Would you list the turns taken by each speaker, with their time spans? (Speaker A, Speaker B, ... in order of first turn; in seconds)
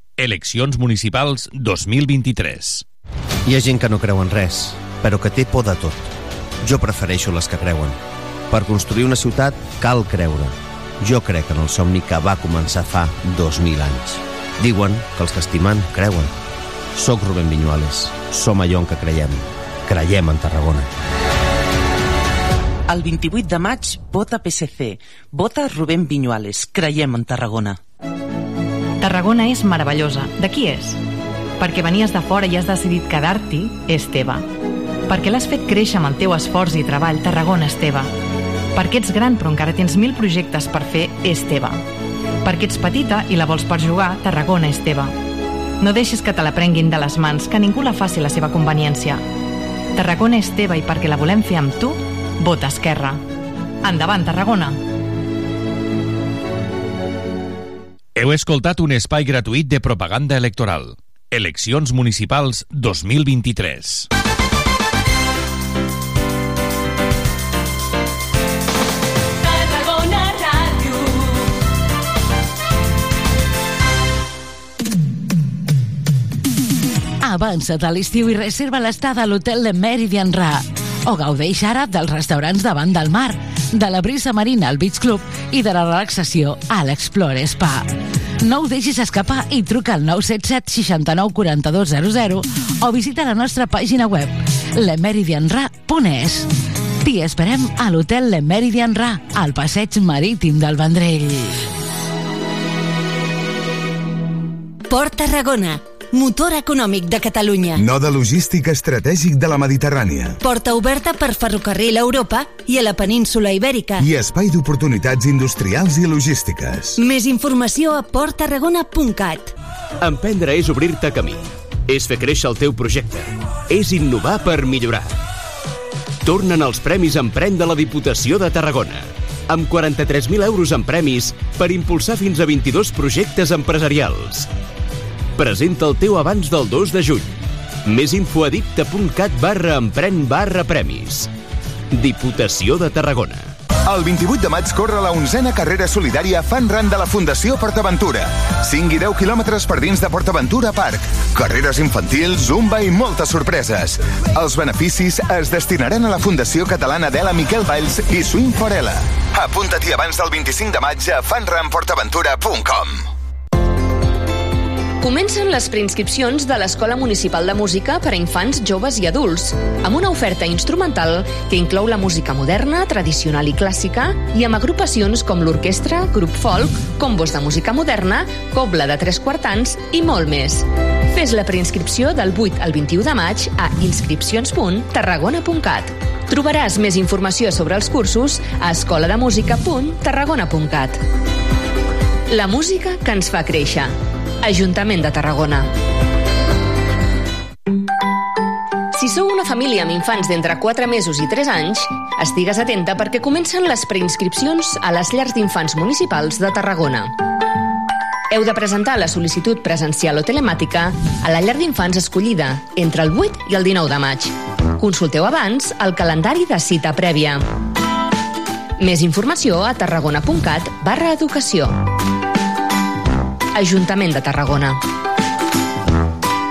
Speaker A: 0.2-2.8, 58.2-64.1
Speaker B: 3.5-6.0, 6.6-8.0, 8.5-16.3, 16.9-20.9
Speaker C: 22.9-27.8
Speaker D: 29.0-31.0, 31.6-34.5, 35.1-38.1, 38.8-41.8, 42.4-45.2, 45.8-49.3, 50.0-53.2, 53.8-54.8
Speaker E: 69.4-71.6, 104.9-107.8, 110.4-114.1, 117.0-119.5
Speaker F: 77.2-87.9, 88.4-96.5, 97.0-101.7
Speaker G: 107.8-110.4, 114.0-117.0, 143.8-163.1
Speaker H: 120.0-125.1, 126.2-134.5, 135.4-137.3, 137.8-141.3, 141.9-143.5
Speaker I: 165.0-191.0, 192.3-195.7, 198.9-207.2, 208.3-217.4, 218.8-221.8, 223.6-224.8